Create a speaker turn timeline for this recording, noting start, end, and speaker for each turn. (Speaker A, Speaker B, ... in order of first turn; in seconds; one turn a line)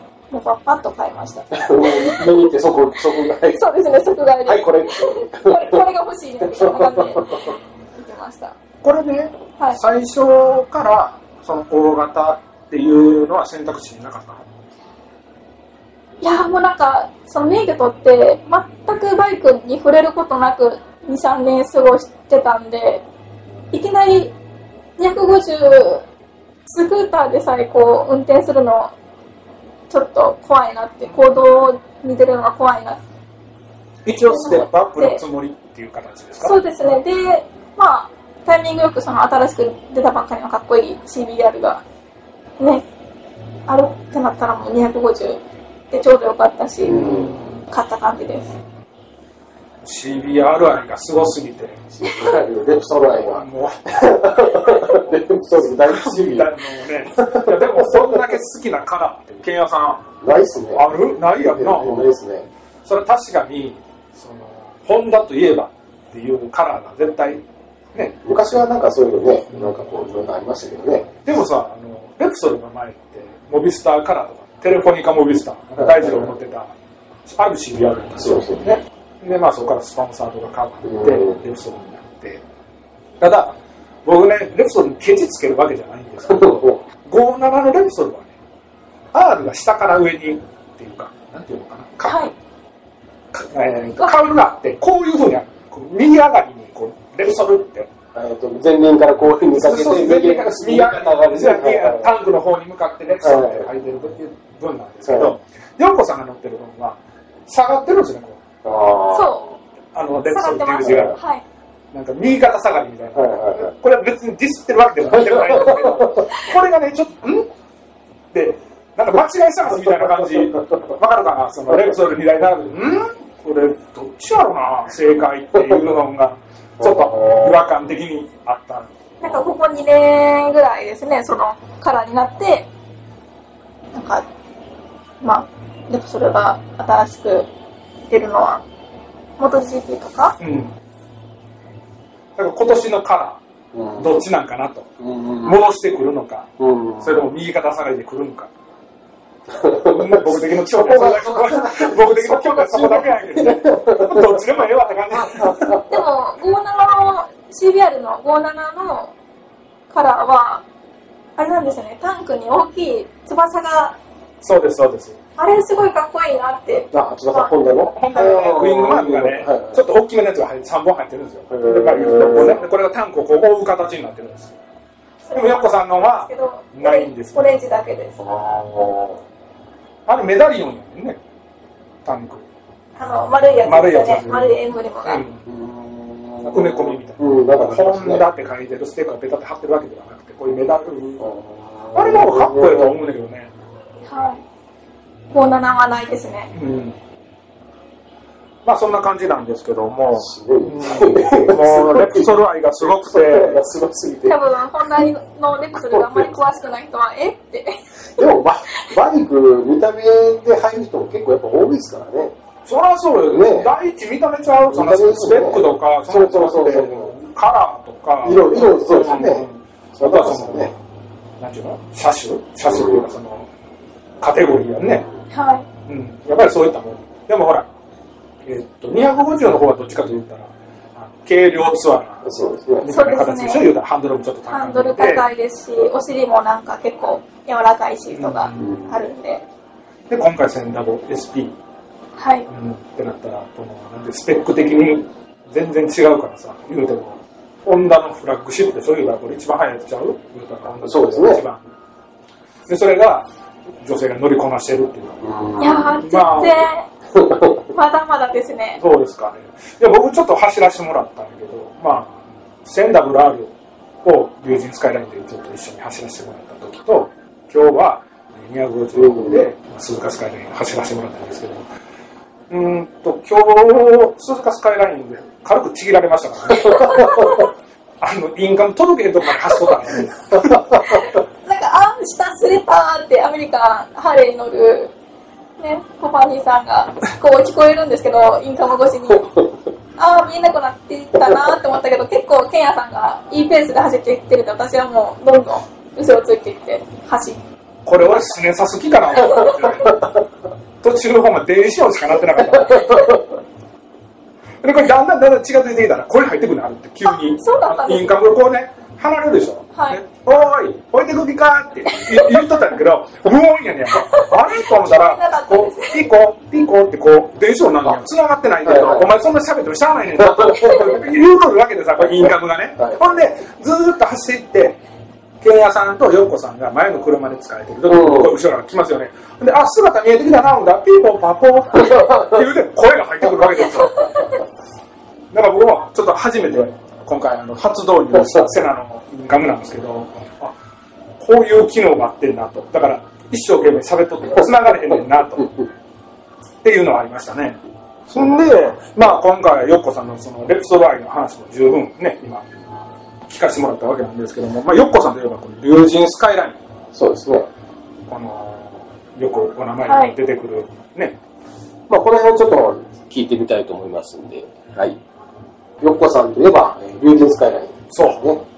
Speaker A: 0.3-2.5
Speaker B: 1.5-3.6
Speaker A: 3.5-8.6
Speaker B: 4.5-5.8
Speaker B: 6.5-7.5
Speaker C: 8.8-14.4
Speaker A: 16.2-23.0
Speaker A: 23.7-24.3
Speaker A: 25.0-26.0
Speaker A: 26.7-28.9
Speaker A: 29.9-33.0
Speaker C: 34.0-36.6
Speaker A: 34.3-35.2
Speaker A: 36.4-41.8
Speaker A: 42.6-42.9
Speaker A: 43.7-48.5
Speaker B: 46.9-47.5
Speaker C: 46.9-47.6
Speaker C: 49.8-51.9
Speaker B: 51.9-56.5
Speaker C: 53.2-55.1
Speaker C: 55.6-60.1
Speaker B: 57.1-58.3
Speaker B: 60.2-62.5
Speaker C: 60.8-62.1
Speaker C: 62.9-68.2
Speaker B: 68.2-71.1
Speaker C: 71.2-76.7
Speaker B: 75.8-76.3
Speaker C: 77.2-82.4
Speaker B: 78.2-78.7
Speaker B: 80.8-81.4
Speaker C: 83.2-88.4
Speaker B: 86.3-86.8
Speaker C: 89.1-92.3
Speaker A: 92.0-92.3
Speaker C: 93.3-97.9
Speaker B: 98.1-102.2
Speaker C: 99.5-108.4
Speaker B: 103.2-103.7
Speaker B: 105.1-105.3
Speaker B: 108.6-109.4
Speaker A: 109.1-109.5
Speaker C: 109.9-111.2
Speaker A: 110.3-111.4
Speaker B: 110.8-111.1
Speaker C: 111.9-117.5
Speaker B: 113.2-113.7
Speaker B: 115.1-116.2
Speaker C: 118.3-128.9
Speaker B: 119.8-120.8
Speaker B: 125.6-125.8
Speaker B: 126.8-127.6
Speaker A: 129.2-132.7
Speaker A: 133.9-134.2
Speaker A: 135.2-137.5
Speaker A: 138.1-138.6
Speaker A: 139.4-140.4
Speaker C: 140.4-140.8
Speaker C: 142.4-143.4
Speaker B: 143.7-144.2
Speaker C: 144.0-144.9
Speaker B: 145.0-145.6
Speaker C: 145.4-146.5
Speaker B: 146.6-147.3
Speaker C: 147.0-148.5
Speaker B: 149.5-155.9
Speaker C: 149.8-155.8
Speaker A: 155.9-159.1
Speaker A: 159.9-160.6
Speaker A: 161.4-164.0
Speaker C: 164.4-165.2
Speaker A: 165.4-167.5
Speaker B: 166.9-169.8
Speaker C: 167.9-174.6
Speaker B: 171.5-172.6
Speaker A: 175.2-178.1
Speaker C: 175.3-177.5
Speaker B: 178.2-179.2
Speaker C: 180.1-181.2
Speaker C: 182.0-182.5
Speaker A: 183.0-185.2
Speaker C: 183.6-185.4
Speaker B: 185.5-188.3
Speaker C: 186.4-191.2
Speaker B: 191.2-192.9
Speaker C: 191.9-193.5
Speaker A: 194.1-194.4
Speaker A: 195.3-196.5
Speaker C: 196.5-197.0
Speaker C: 198.7-203.7
Speaker B: 200.1-204.4
Speaker A: 204.3-208.2
Speaker B: 205.8-206.3
Speaker B: 208.2-212.3
Speaker C: 212.7-220.8
Speaker B: 213.3-213.7
Speaker B: 214.7-217.1
Speaker B: 218.2-220.7
Speaker C: 221.4-223.5
Speaker B: 222.7-223.1
Speaker C: 224.2-225.1
Speaker B: 224.8-225.2
Speaker A: 225.3-225.7
Speaker C: 225.9-227.7
Speaker C: 228.4-232.3
Speaker B: 232.2-232.9
Speaker C: 232.8-235.3
Speaker A: 232.9-233.7
Speaker A: 234.5-239.4
Speaker C: 238.1-238.7
Speaker B: 238.6-239.1
Speaker C: 240.1-241.6
Speaker A: 242.2-242.5
Speaker C: 242.5-251.6
Speaker B: 250.8-251.4
Speaker C: 252.7-253.3
Speaker C: 253.8-255.2
Speaker B: 255.2-256.0
Speaker A: 255.6-256.9
Speaker C: 256.0-256.7
Speaker B: 257.1-257.6
Speaker A: 257.7-258.8
Speaker C: 258.8-263.5
Speaker C: 264.0-271.7
Speaker B: 268.9-269.5
Speaker C: 272.5-277.4
Speaker B: 276.6-277.4
Speaker A: 276.8-277.4
Speaker C: 278.0-280.8
Speaker B: 280.4-281.0
Speaker A: 280.9-284.9
Speaker A: 285.6-289.3
Speaker B: 289.2-289.5
Speaker A: 290.0-297.4
Speaker C: 297.9-300.0
Speaker C: 300.8-303.2
Speaker B: 302.5-303.2
Speaker C: 304.6-324.8
Speaker A: 307.1-308.2
Speaker A: 309.7-310.0
Speaker A: 314.1-316.1
Speaker B: 318.6-319.2
Speaker B: 320.2-321.2
Speaker B: 322.1-323.0
Speaker C: 325.4-334.3
Speaker B: 327.9-328.4
Speaker B: 331.8-332.4
Speaker C: 335.3-340.6
Speaker C: 341.2-345.5
Speaker B: 345.4-345.7
Speaker C: 346.6-352.5
Speaker B: 348.2-348.6
Speaker C: 353.3-356.6
Speaker B: 356.9-357.5
Speaker C: 358.1-361.2
Speaker A: 359.9-360.2
Speaker B: 361.9-365.0
Speaker B: 365.8-368.4
Speaker C: 367.9-368.3